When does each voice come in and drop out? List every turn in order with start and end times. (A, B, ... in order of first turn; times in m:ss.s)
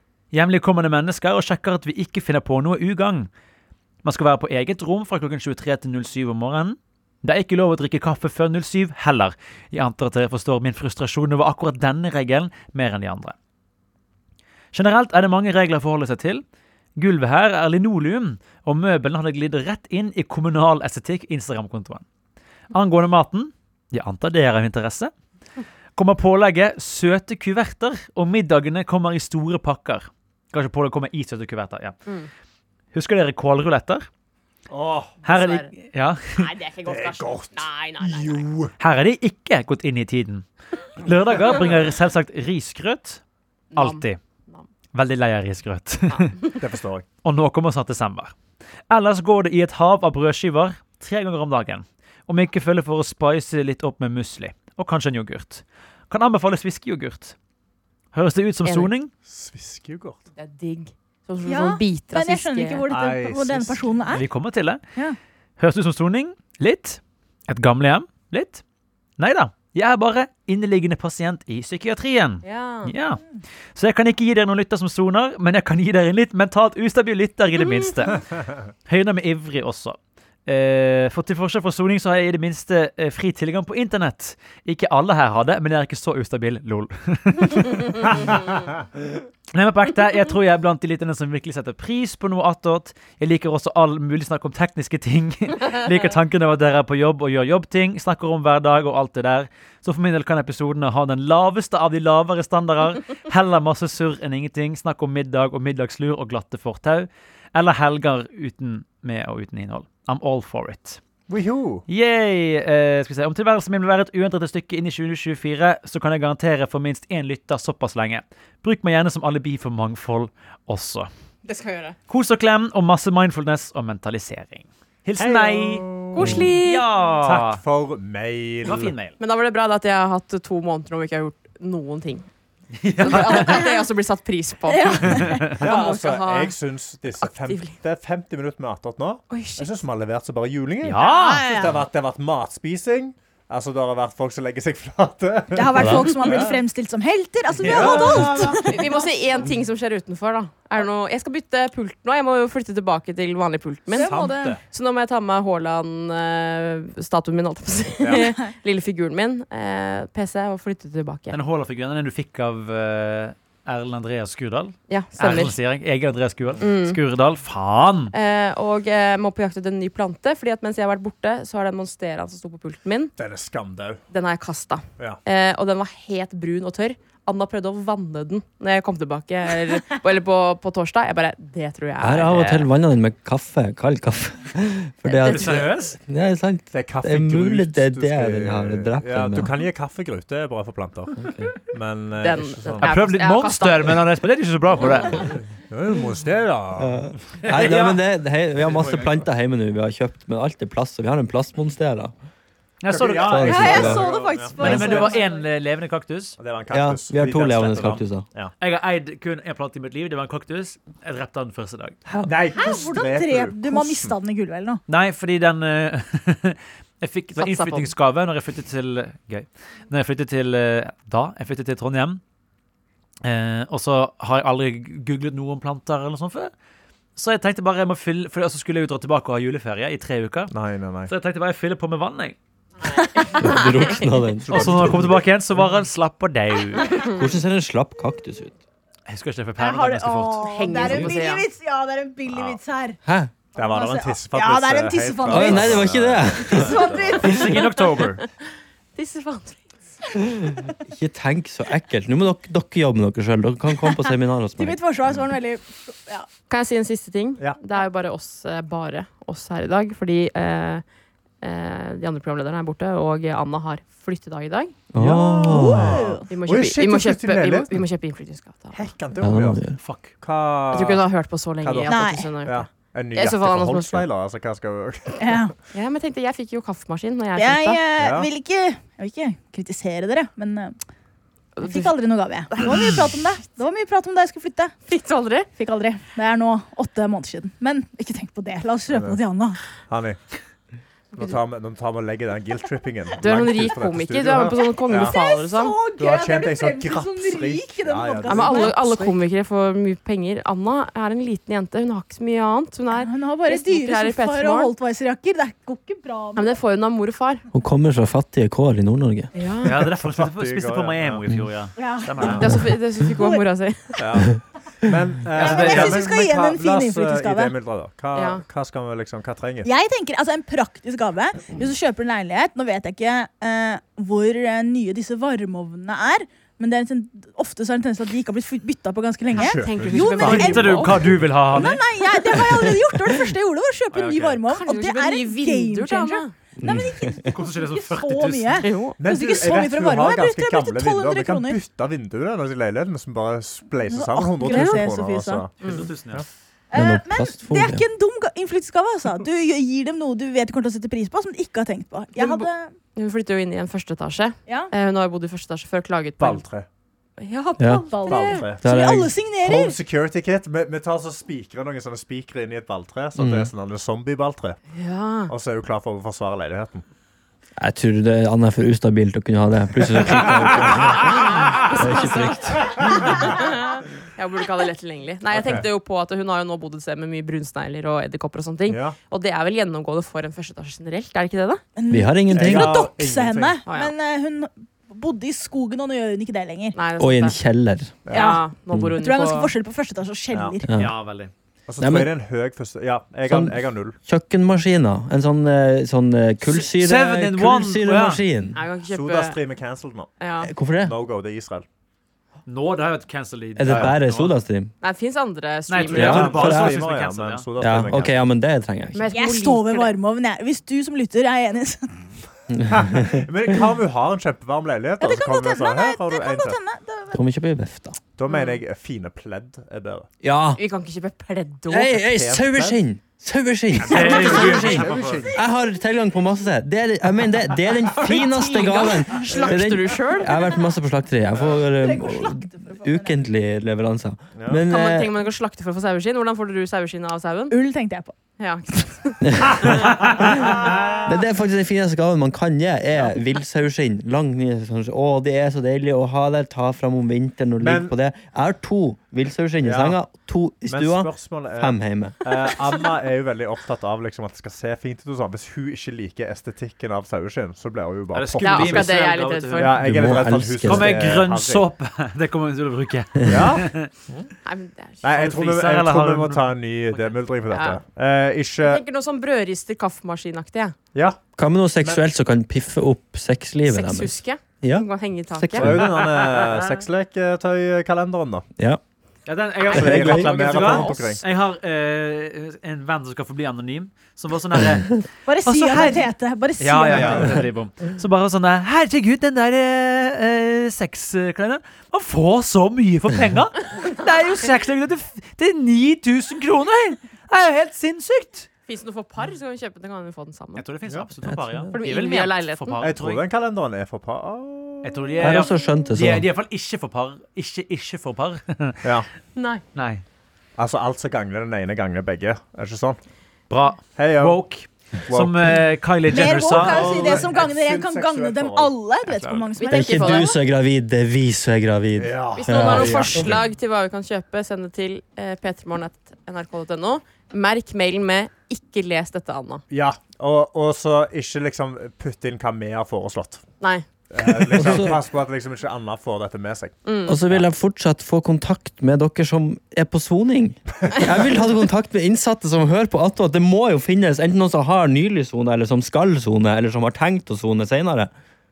0:00.3-0:03.3 A
0:04.0-0:13.4 A
0:14.7-0:16.4 A
0:17.0-0:22.0 A
0:22.7-0:25.1 A
0:26.0-0:32.0 A
0:32.9-0:34.1 A
0:34.7-0:35.2 B
0:35.2-0:35.7 C
0:35.3-0:36.4 A
0:36.4-0:38.5 C
0:36.9-0:38.7 B
0:38.8-0:40.5 A
0:41.0-0:43.2 A
0:43.7-0:44.6 C
0:43.8-0:44.2 A
0:44.9-0:46.4 A
0:46.1-0:46.5 C
0:46.6-0:47.0 B
0:47.2-0:48.4 A
0:48.9-0:57.4 A
0:58.1-0:59.1 A
0:58.6-0:58.9 C
0:59.3-1:00.2 B
1:00.4-1:02.8 C
1:01.5-1:04.2 D
1:02.9-1:04.0 B
1:04.1-1:04.8 A
1:05.6-1:08.6 A
1:09.2-1:13.2 A
1:12.4-1:12.9 C
1:13.8-1:18.2 A
1:18.9-1:28.3 A
1:28.0-1:28.6 B
1:29.5-1:51.0 A
1:51.3-1:51.8 B
1:51.9-2:01.1 A
2:01.5-2:02.0 C
2:02.1-2:07.6 A
2:05.2-2:06.5 B
2:06.2-2:06.8 C
2:07.2-2:08.9 B
2:08.6-2:09.2 A
2:09.2-2:12.3 C
2:12.8-2:13.7 A
2:13.0-2:16.6 C
2:14.7-2:15.5 D
2:15.1-2:15.6 A
2:15.6-2:26.6 B
2:17.2-2:17.8 C
2:19.3-2:19.8 C
2:20.8-2:21.6 A
2:21.0-2:21.8 D
2:25.5-2:29.0 D
2:26.2-2:26.5 C
2:27.5-2:28.6 B
2:27.6-2:41.4 C
2:33.9-2:34.6 D
2:34.0-2:34.6 B
2:41.3-2:48.1 A
2:44.9-2:45.6 C
2:46.6-2:47.0 C
2:48.1-2:53.1 C
2:53.2-2:54.0 B
2:54.1-3:02.7 C
3:02.0-3:09.5 E
3:05.1-3:05.6 C
3:05.3-3:06.0 A
3:06.7-3:13.0 B
3:11.2-3:11.6 E
3:12.2-3:14.0 C
3:12.8-3:15.3 A
3:15.7-3:17.2 B
3:16.8-3:22.1 E
3:17.4-3:18.0 A
3:18.6-3:19.1 A
3:22.8-3:23.9 A
3:22.9-3:25.2 B
3:23.2-3:24.1 E
3:23.4-3:25.4 D
3:24.6-3:26.4 A
3:26.4-3:28.5 B
3:26.7-3:28.2 E
3:28.6-3:32.0 A
3:32.1-3:32.4 E
3:32.2-3:34.2 B
3:32.6-3:34.8 D
3:34.9-3:42.2 A
3:37.4-3:37.9 C
3:43.2-3:46.5 A
3:47.2-3:50.5 A
3:50.5-3:51.1 B
3:51.1-3:52.4 A
3:52.9-3:54.0 C
3:53.0-3:53.3 D
3:53.4-3:55.2 E
3:54.4-3:55.3 B
3:54.5-3:57.1 A
3:57.1-3:58.6 E
3:59.1-4:01.1 A
3:59.6-4:03.0 D
4:00.5-4:01.5 C
4:02.3-4:02.6 B
4:03.1-4:03.3 E
4:03.6-4:07.4 B
4:03.6-4:07.5 D
4:05.3-4:06.9 E
4:07.2-4:08.2 A
4:07.3-4:08.2 C
4:09.0-4:09.6 C
4:10.8-4:14.8 E
4:14.6-4:16.3 D
4:16.5-4:20.8 C
4:21.4-4:24.8 C
4:24.9-4:26.0 E
4:25.0-4:27.9 B
4:25.4-4:26.3 D
4:26.3-4:28.9 C
4:28.7-4:29.6 B
4:29.2-4:29.8 E
4:29.8-4:30.1 A
4:30.2-4:31.0 B
4:30.7-4:34.1 C
4:31.6-4:35.4 B
4:31.9-4:32.3 D
4:35.2-4:35.5 D
4:35.7-4:37.8 C
4:37.4-4:40.8 D
4:38.0-4:38.3 B
4:41.6-4:41.9 C
4:41.6-4:44.7 D
4:42.5-4:42.8 C
4:44.9-4:45.5 C
4:45.6-4:49.6 D
4:48.9-4:49.2 B
4:49.9-4:50.2 B
4:51.2-4:55.2 B
4:53.2-4:55.8 C
4:54.8-4:58.8 D
4:56.0-4:59.2 B
4:58.3-5:04.7 C
5:02.9-5:06.6 D
5:06.4-5:07.4 C
5:07.5-5:09.3 E
5:09.3-5:09.8 C
5:09.6-5:12.5 A
5:10.0-5:11.3 B
5:11.8-5:12.5 D
5:12.2-5:14.0 C
5:13.0-5:13.4 D
5:14.0-5:19.7 B
5:15.4-5:16.1 A
5:15.4-5:17.5 D
5:18.2-5:18.4 C
5:19.6-5:41.6 D
5:29.3-5:31.2 B
5:29.4-5:31.1 C
5:30.2-5:31.8 A
5:33.9-5:34.4 A
5:34.5-5:36.3 C
5:36.6-5:37.3 E
5:37.3-5:38.6 A
5:38.6-5:39.0 C
5:39.0-5:46.3 B
5:43.9-5:45.5 D
5:44.4-5:44.8 C
5:45.6-5:46.2 A
5:45.6-5:45.9 C
5:46.7-5:52.7 D
5:46.8-5:47.8 E
5:52.2-5:56.4 C
5:54.5-5:54.7 D
5:56.2-5:56.7 B
5:57.2-5:58.5 C
5:57.6-5:57.8 E
5:57.6-5:59.8 D
5:58.1-5:58.6 B
5:58.6-5:59.2 E
5:59.4-6:04.6 B
6:03.2-6:03.5 E
6:04.7-6:05.3 C
6:05.3-6:06.8 B
6:07.6-6:13.3 E
6:09.9-6:11.0 B
6:11.4-6:21.6 C
6:13.0-6:13.2 B
6:15.3-6:15.7 B
6:18.7-6:19.0 B
6:21.8-6:26.8 D
6:21.9-6:22.9 E
6:22.4-6:23.6 B
6:23.7-6:23.9 C
6:26.8-6:27.4 C
6:27.0-6:28.0 E
6:28.1-6:28.4 B
6:28.1-6:29.5 C
6:28.1-6:28.4 D
6:29.0-6:30.7 D
6:30.3-6:30.6 B
6:30.7-6:30.9 E
6:30.8-6:31.3 A
6:31.7-6:34.0 B
6:31.8-6:32.1 E
6:33.3-6:38.6 E
6:36.5-6:38.2 A
6:38.5-6:39.4 C
6:38.9-6:40.1 B
6:40.2-6:40.5 C
6:40.4-6:41.0 E
6:40.8-6:41.7 B
6:42.5-6:44.3 A
6:43.6-6:44.7 E
6:43.7-6:44.0 B
6:44.8-6:46.4 C
6:45.7-6:47.5 A
6:45.9-6:46.9 E
6:45.9-6:48.2 B
6:47.6-6:49.1 E
6:49.0-6:49.9 C
6:49.1-6:52.0 D
6:52.5-6:53.3 E
6:52.7-6:56.6 B
6:55.0-6:57.2 D
6:57.1-6:58.0 E
6:58.2-7:00.1 B
6:58.3-6:58.6 C
7:00.2-7:00.6 E
7:00.6-7:01.9 C
7:01.7-7:15.1 E
7:01.9-7:02.8 B
7:03.8-7:05.4 B
7:03.8-7:05.2 A
7:08.0-7:10.3 C
7:09.3-7:09.6 B
7:11.6-7:13.2 D
7:14.4-7:14.6 B
7:14.7-7:17.6 C
7:17.5-7:18.1 D
7:18.4-7:19.9 C
7:19.2-7:20.3 E
7:19.7-7:21.1 B
7:21.1-7:32.2 E
7:27.6-7:27.9 B
7:29.6-7:30.0 B
7:30.7-7:39.0 B
7:38.1-7:39.9 A
7:38.4-7:39.8 C
7:39.6-7:41.6 B
7:39.7-7:41.0 E
7:40.6-7:43.9 A
7:43.2-7:43.5 E
7:43.3-7:44.3 B
7:44.4-7:45.1 C
7:45.0-7:48.8 B
7:45.1-7:47.1 A
7:47.5-7:47.8 C
7:48.6-7:50.8 C
7:50.9-7:51.2 B
7:51.4-7:55.9 E
7:53.7-7:55.6 C
7:55.6-7:58.5 B
7:56.0-7:56.5 A
7:59.3-8:18.5 A
7:59.7-8:01.2 B
7:59.7-8:01.1 E
8:05.3-8:07.4 D
8:18.7-8:20.6 C
8:20.6-8:23.3 A
8:21.2-8:21.7 E
8:21.7-8:22.8 C
8:22.8-8:25.3 B
8:24.8-8:28.9 A
8:25.2-8:26.3 E
8:25.5-8:25.9 C
8:29.4-8:29.6 C
8:29.8-8:30.0 A
8:30.6-8:33.0 B
8:33.5-8:37.3 A
8:34.0-8:34.4 B
8:35.1-8:39.5 B
8:36.1-8:40.3 D
8:39.6-8:40.4 C
8:39.7-8:43.4 E
8:42.0-8:43.4 B
8:42.3-8:49.6 C
8:49.7-8:53.4 B
8:53.6-8:53.9 C
8:54.1-8:57.4 B
8:54.2-8:55.0 E
8:56.8-8:57.2 C
8:57.1-9:08.1 E